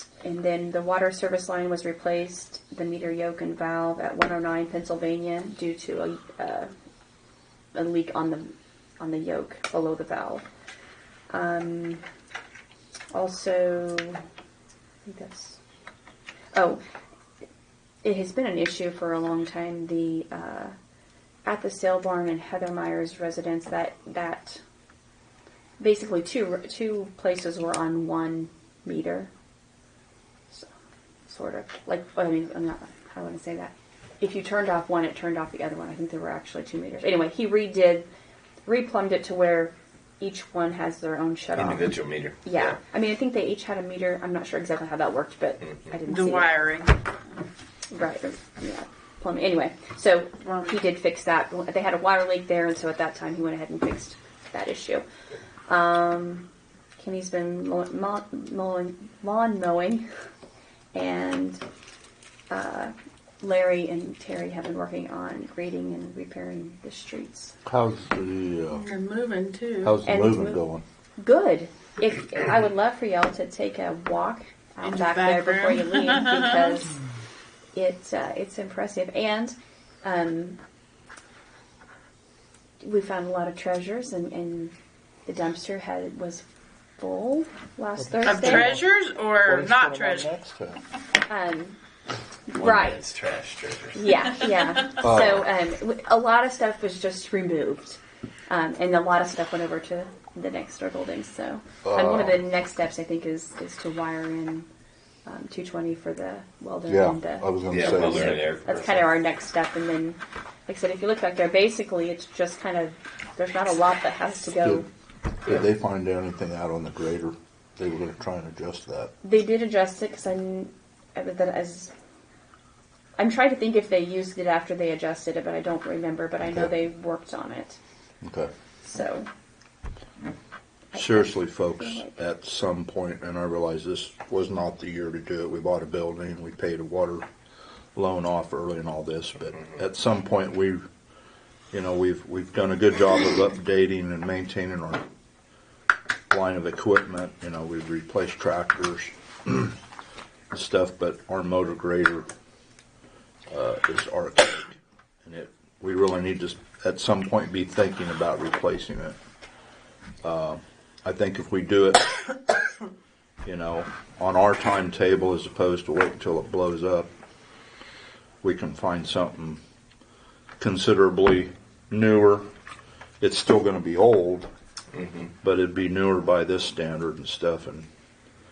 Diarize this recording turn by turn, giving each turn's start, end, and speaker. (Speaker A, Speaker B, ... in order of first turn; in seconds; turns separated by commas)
Speaker A: 0.2-6.7, Speaker A: 7.8-10.5, Speaker A: 11.3-12.0, Speaker A: 13.1-14.2, Speaker A: 15.1-15.6, Speaker A: 16.5-16.8, Speaker A: 18.0-20.7, Speaker A: 21.5-24.6, Speaker A: 25.8-29.3, Speaker A: 31.3-38.1, Speaker A: 38.7-46.6, Speaker B: 41.5-42.8, Speaker C: 46.1-46.9, Speaker A: 47.9-55.0, Speaker C: 50.4-50.8, Speaker A: 55.7-56.5, Speaker A: 57.0-60.0, Speaker A: 60.9-61.6, Speaker A: 62.5-67.5, Speaker D: 67.7-68.9, Speaker C: 68.7-70.0, Speaker D: 69.8-70.8, Speaker A: 70.0-70.6, Speaker A: 71.2-77.0, Speaker C: 74.8-76.8, Speaker A: 77.7-80.6, Speaker A: 82.8-84.7, Speaker A: 85.3-86.4, Speaker A: 87.0-88.8, Speaker D: 88.0-88.8, Speaker C: 88.2-90.3, Speaker D: 89.4-90.8, Speaker A: 91.3-91.8, Speaker A: 92.5-93.0, Speaker B: 92.6-94.4, Speaker A: 94.0-104.7, Speaker D: 95.0-95.5, Speaker D: 101.8-102.5, Speaker A: 105.2-114.9, Speaker D: 106.9-108.4, Speaker B: 107.7-109.1, Speaker D: 114.6-114.9, Speaker D: 115.4-119.1, Speaker A: 119.2-121.9, Speaker A: 123.2-127.8, Speaker D: 128.2-128.5, Speaker A: 128.8-129.3, Speaker A: 130.9-132.1, Speaker D: 130.9-137.3, Speaker D: 137.9-140.8, Speaker D: 141.7-145.1, Speaker D: 146.3-149.8, Speaker D: 150.5-152.3, Speaker D: 153.5-159.2, Speaker D: 160.2-162.1, Speaker D: 163.4-167.1, Speaker D: 168.4-169.6, Speaker D: 170.6-172.4, Speaker D: 173.2-174.5, Speaker B: 174.9-175.3, Speaker D: 175.4-177.9